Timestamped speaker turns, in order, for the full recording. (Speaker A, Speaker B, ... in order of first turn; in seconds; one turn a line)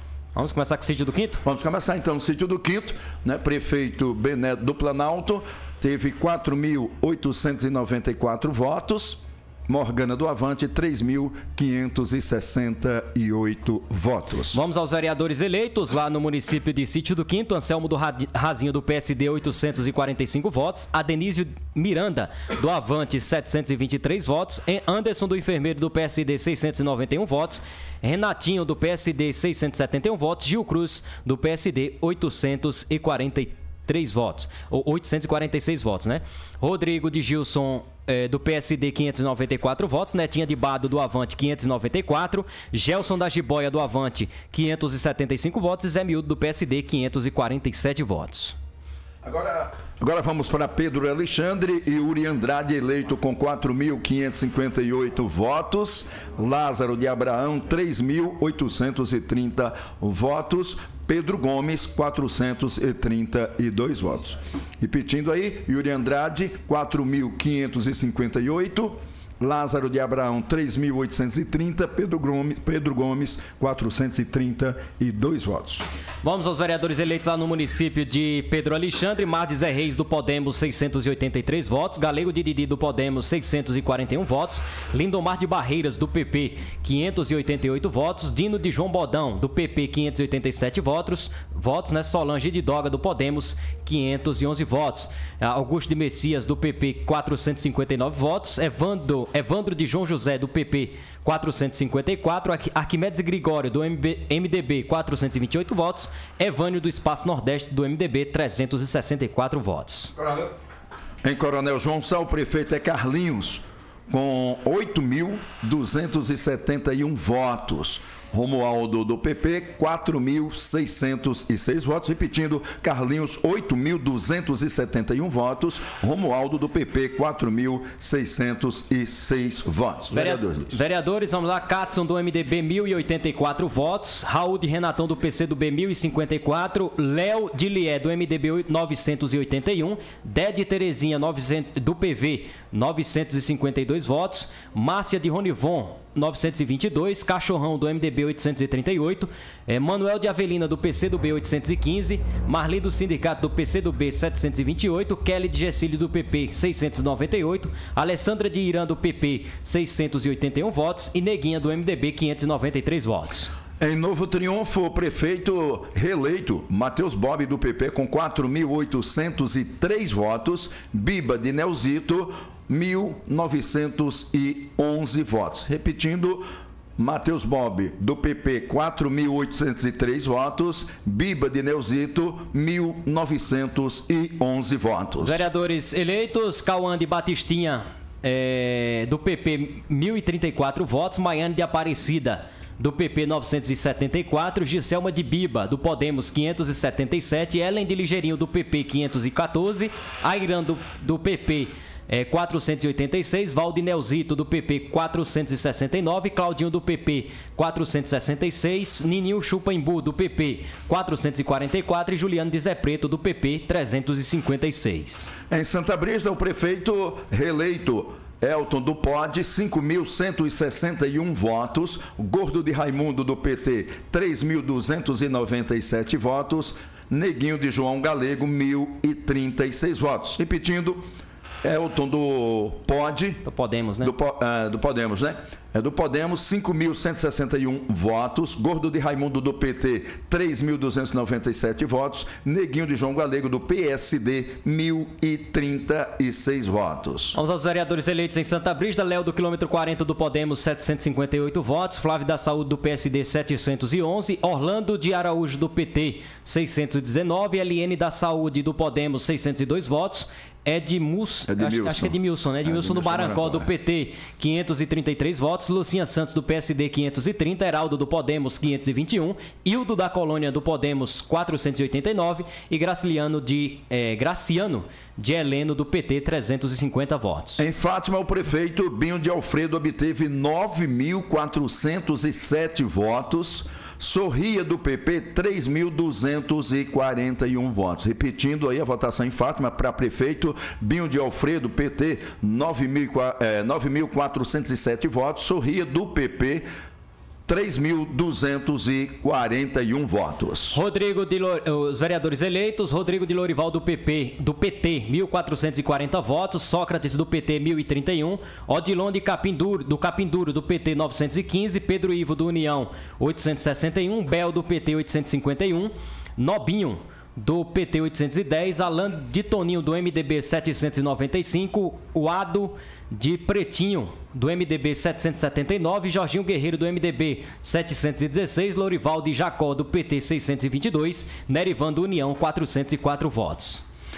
Speaker A: 0.3-1.4
Speaker B: 1.4-14.6
Speaker A: 14.5-48.5
Speaker B: 49.2-75.8
Speaker A: 76.2-110.1
Speaker B: 110.2-110.5
Speaker B: 111.2-130.8
Speaker A: 130.1-163.5
Speaker B: 163.8-176.4
Speaker B: 177.0-185.4
Speaker A: 185.2-215.3
Speaker B: 215.5-231.0
Speaker B: 231.6-233.4
Speaker A: 233.4-234.1
Speaker B: 234.0-247.4
Speaker A: 247.3-277.6
Speaker B: 261.5-263.7
Speaker B: 277.6-296.6
Speaker B: 297.5-300.8
Speaker A: 300.7-333.8